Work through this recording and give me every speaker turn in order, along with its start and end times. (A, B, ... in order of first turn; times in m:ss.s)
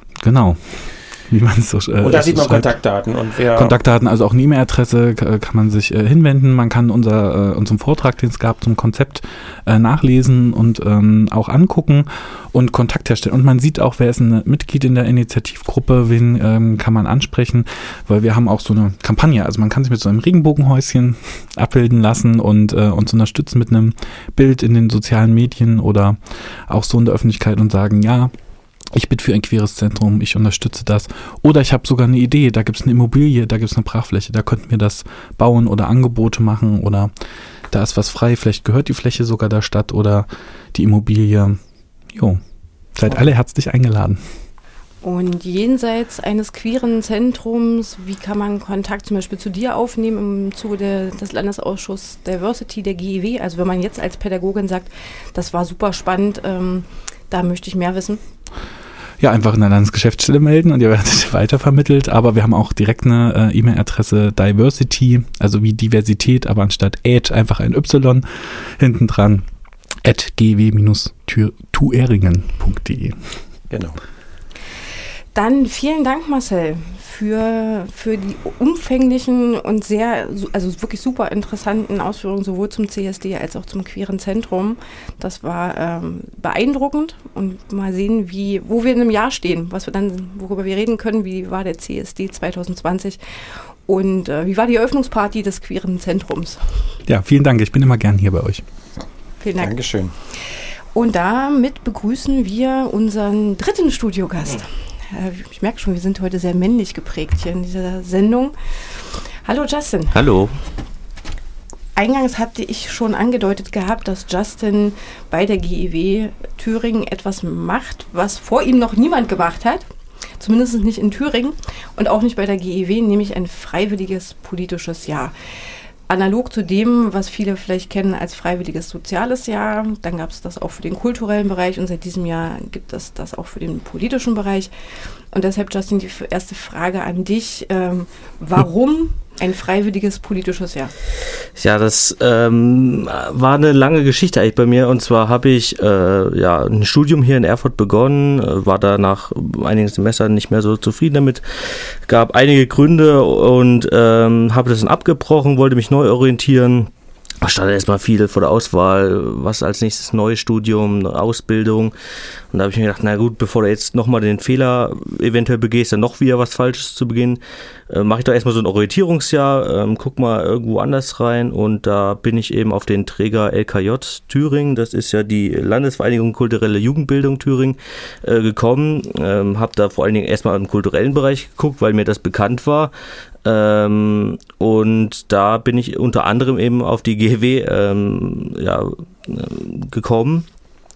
0:00.2-0:02.7 A
0:02.0-0:03.8 B
0:03.5-0:28.3 A
0:28.9-0:37.1 A
0:37.7-0:41.6 A
0:42.1-0:42.4 A
0:42.9-0:44.2 A
0:45.0-0:58.2 C
0:59.2-1:09.4 A
1:10.0-1:13.2 A
1:13.7-1:14.0 B
1:15.3-1:33.2 C
1:33.9-1:36.6 C
1:37.1-1:38.6 A
1:39.4-1:39.7 C
1:39.6-1:40.1 B
1:40.9-1:48.5 C
1:49.4-1:50.2 C
1:50.1-1:50.5 D
1:52.0-1:59.8 C
2:00.4-2:05.3 C
2:06.1-2:14.7 C
2:15.3-2:20.9 C
2:21.6-2:36.9 D
2:37.4-2:41.9 D
2:42.5-3:02.9 D
3:03.4-3:10.5 D